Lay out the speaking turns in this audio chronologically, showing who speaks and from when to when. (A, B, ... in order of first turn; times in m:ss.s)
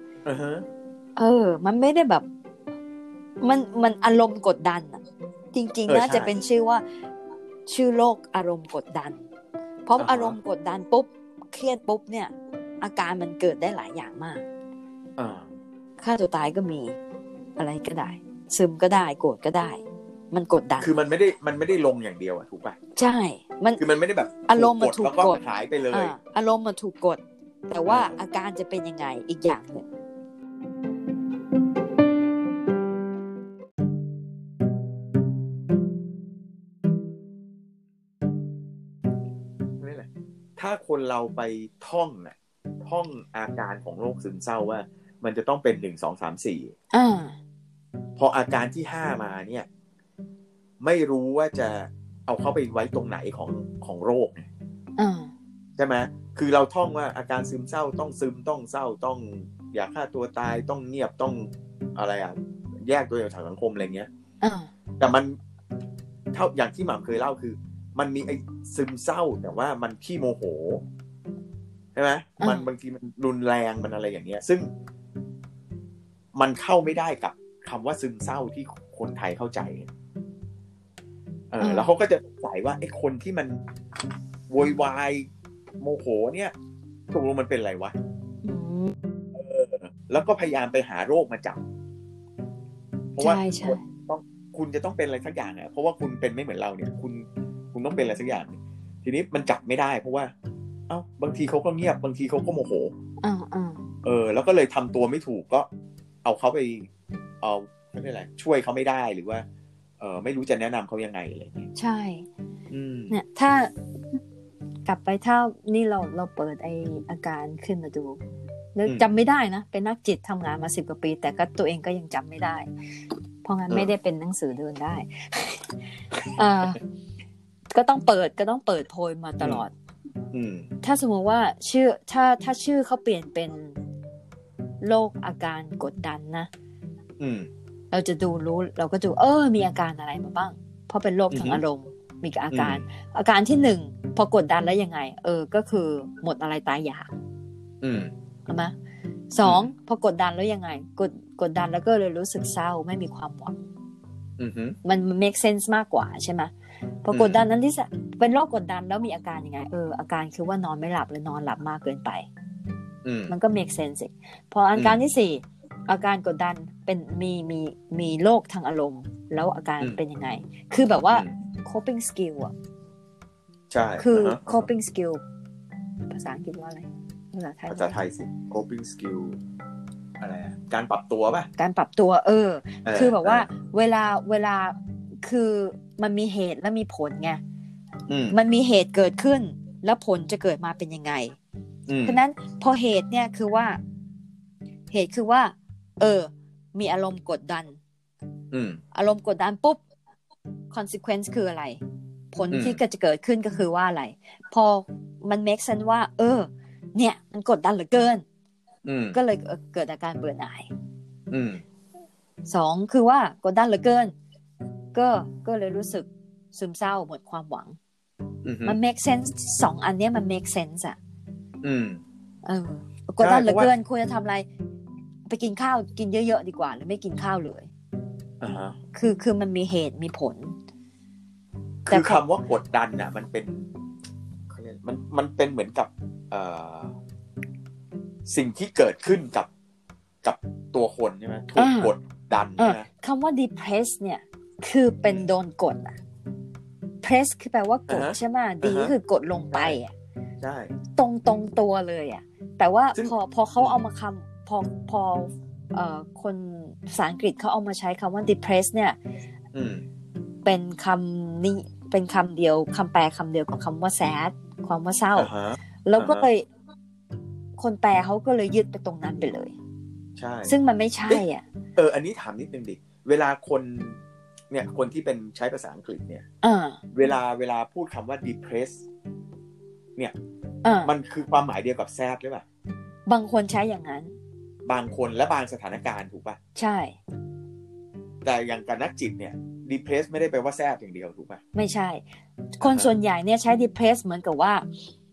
0:00.2-0:00.6 A
0:01.2-0:02.2 B
0:03.4-0:05.0 B
0:05.5-0:06.8 B
0:05.9-0:06.3 A
0:07.7-0:09.2 B
0:09.8-0:14.4 B
0:10.0-0:10.4 A
0:15.2-0:15.5 A
0:16.0-0:17.0 B
0:17.6-0:20.9 B
0:20.8-0:22.8 A
0:23.0-0:23.8 B
0:23.8-0:26.1 A
0:24.5-0:25.4 B
0:25.9-0:29.9 B
0:27.9-0:28.1 A
0:39.8-0:46.7 A
0:46.9-0:47.4 B
0:48.2-0:49.7 A
0:50.8-0:54.5 A
0:55.0-0:55.3 B
0:55.8-1:04.1 A
1:04.4-1:04.7 B
1:05.0-1:05.4 A
1:06.3-1:10.8 A
1:11.9-1:14.7 A
1:12.4-1:12.7 B
1:16.3-1:19.9 A
1:21.5-1:23.6 A
1:21.6-1:21.9 B
1:24.5-1:25.3 A
1:25.8-1:26.5 A
1:27.1-1:27.9 A
1:28.4-1:28.9 B
1:29.3-1:31.6 A
1:33.2-1:40.3 A
1:33.2-1:33.8 B
1:40.9-1:42.9 A
1:43.2-1:43.8 B
1:44.0-1:45.7 A
1:46.2-1:46.9 A
1:47.4-1:49.4 A
1:50.0-1:51.7 A
1:51.7-1:52.3 B
1:52.7-1:53.2 A
1:53.1-1:53.7 B
1:54.8-1:58.2 B
1:58.8-2:02.7 B
2:03.4-2:06.8 B
2:07.7-2:09.7 B
2:10.3-2:10.7 A
2:10.8-2:13.8 B
2:14.8-2:16.5 B
2:17.2-2:17.5 A
2:17.9-2:27.1 B
2:21.3-2:21.6 A
2:22.5-2:22.8 A
2:27.8-2:28.1 A
2:28.5-2:28.7 B
2:29.3-2:33.6 B
2:29.4-2:29.7 A
2:34.4-2:34.8 A
2:34.8-2:36.5 B
2:37.0-2:42.3 B
2:37.1-2:37.4 A
2:43.0-2:43.3 A
2:43.3-2:52.5 B
2:51.1-2:51.3 A
2:53.7-2:54.7 A
2:54.0-2:55.2 B
2:56.1-2:58.0 B
2:57.7-2:59.4 A
3:00.2-3:01.5 A
3:01.6-3:07.4 B
3:02.8-3:03.5 A
3:08.1-3:08.4 A
3:08.3-3:11.4 B
3:11.9-3:12.2 A
3:12.0-3:13.8 B
3:14.9-3:17.8 B
3:18.5-3:18.8 A
3:18.9-3:19.8 B
3:20.7-3:21.8 B
3:22.3-3:28.2 B
3:22.5-3:22.8 A
3:28.8-3:29.2 A
3:29.1-3:30.7 B
3:31.3-3:31.6 A
3:32.5-3:34.1 B
3:34.9-3:37.8 B
3:38.4-3:38.8 A
3:38.6-3:41.0 B
3:41.6-3:42.0 A
3:42.4-3:44.4 B
3:43.2-3:43.7 A
3:45.3-3:47.7 B
3:48.4-3:48.8 A
3:48.9-3:50.5 B
3:51.9-3:53.7 A
3:51.9-3:52.2 B
3:54.5-3:56.9 A
3:58.2-3:59.5 A
4:00.2-4:02.9 A
4:01.6-4:01.9 B
4:02.6-4:06.0 B
4:07.0-4:09.9 B
4:07.9-4:08.9 A
4:09.5-4:09.8 A
4:10.4-4:10.7 A
4:11.0-4:19.0 B
4:12.9-4:13.8 A
4:19.5-4:19.8 A
4:20.4-4:25.3 B
4:25.1-4:26.3 A
4:25.8-4:26.4 B
4:27.6-4:29.5 B
4:30.2-4:30.5 A
4:30.5-4:31.4 B
4:31.1-4:34.0 A
4:34.5-4:36.2 A
4:36.4-4:36.8 B
4:36.9-4:38.8 A
4:40.6-4:40.9 B
4:40.8-4:42.4 A
4:43.1-4:44.1 B
4:44.6-4:46.4 A
4:46.6-4:47.0 B
4:48.2-4:51.4 A
4:51.5-4:52.0 B
4:52.6-4:54.6 B
4:52.6-4:52.9 A